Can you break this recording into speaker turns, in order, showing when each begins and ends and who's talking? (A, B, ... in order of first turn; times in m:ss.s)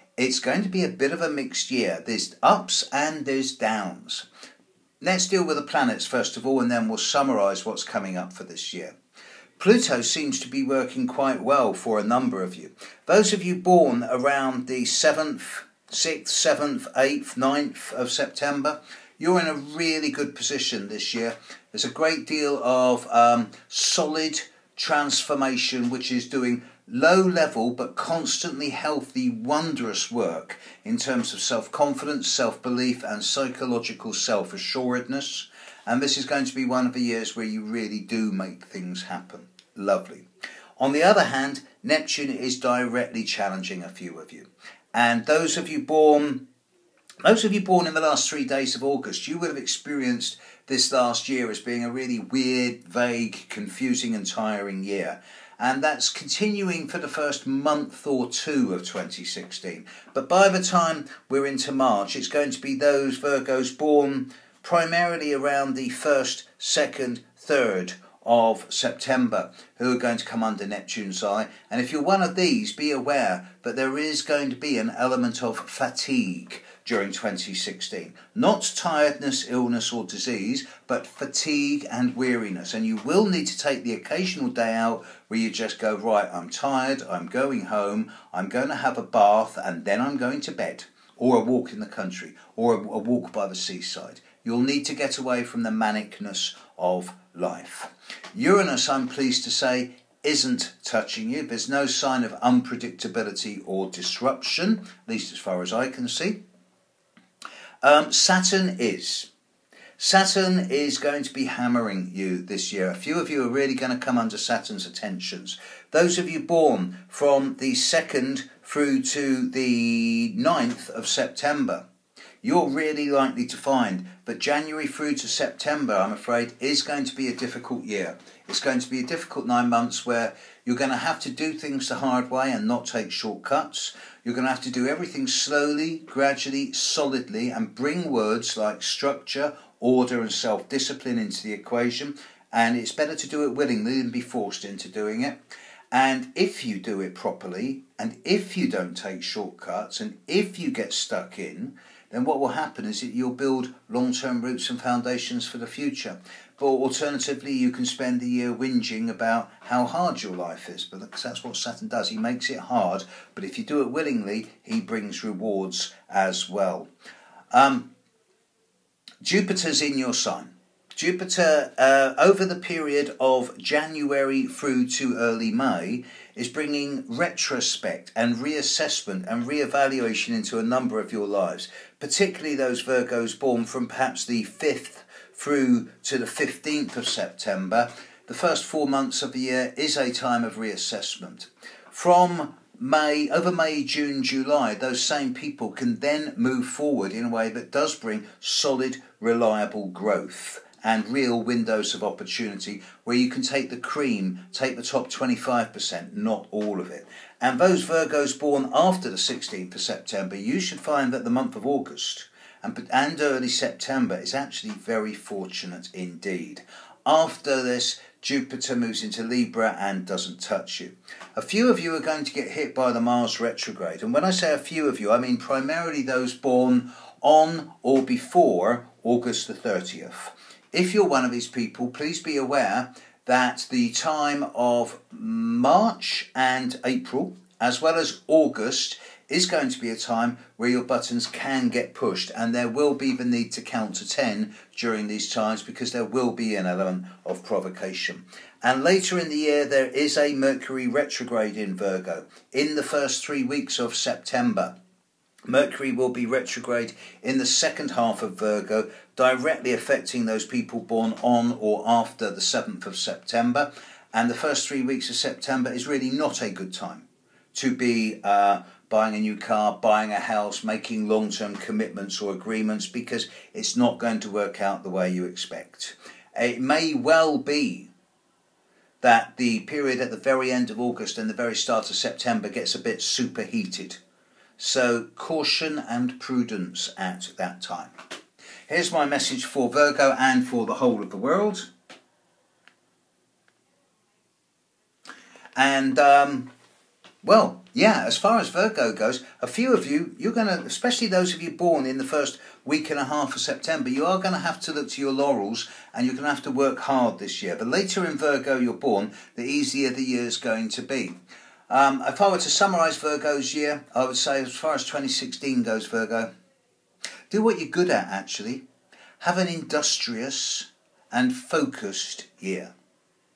0:00.2-0:04.2 A
0:05.0-0:08.9 A
0:09.6-0:40.2 A
0:40.8-0:46.4 A
0:47.2-1:46.4 A
1:47.8-1:49.3 A
1:50.0-2:01.8 A
2:02.4-2:25.4 A
2:25.9-2:46.9 A
2:47.5-2:47.9 A
2:49.2-4:14.7 A
4:15.4-4:37.9 A
4:39.0-4:44.0 A
4:44.6-4:47.9 A
4:48.7-4:51.7 A
4:55.6-4:56.5 A
4:57.2-5:11.2 A
5:11.7-5:16.3 A
5:17.3-5:18.6 A
5:19.2-5:22.7 A